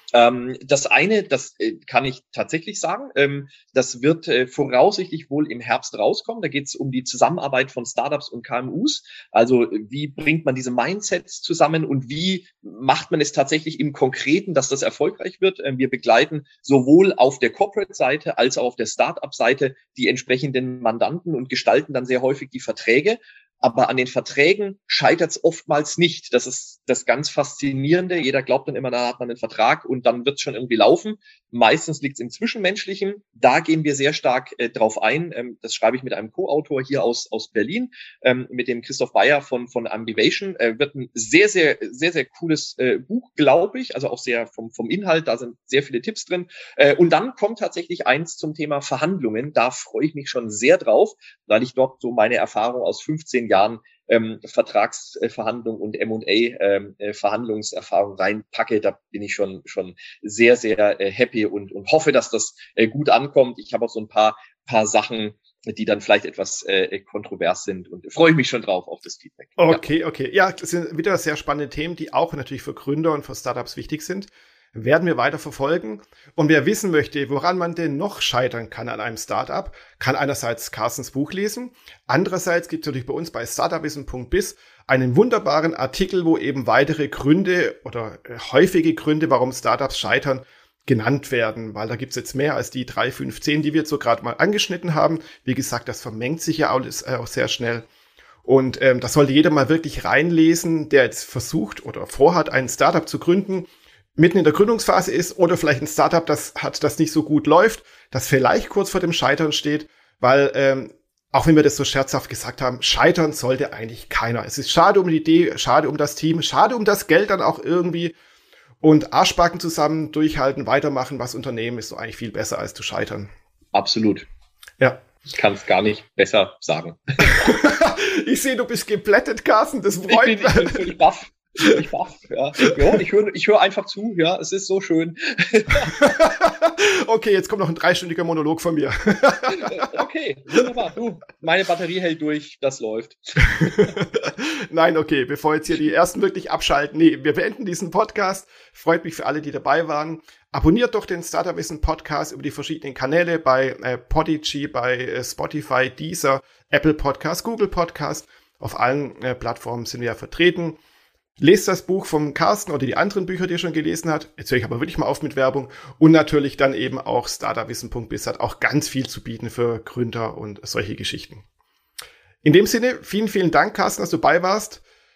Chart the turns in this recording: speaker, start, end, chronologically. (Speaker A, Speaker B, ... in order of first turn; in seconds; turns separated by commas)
Speaker A: 0.1-69.8, Speaker B: 69.6-97.9, Speaker B: 98.5-118.2, Speaker B: 118.8-123.3, Speaker A: 123.7-124.3, Speaker A: 125.3-127.5, Speaker B: 127.2-130.8, Speaker A: 130.1-135.9, Speaker B: 135.9-140.0, Speaker A: 139.6-143.9, Speaker B: 143.5-160.8, Speaker B: 161.4-171.4, Speaker B: 172.4-174.8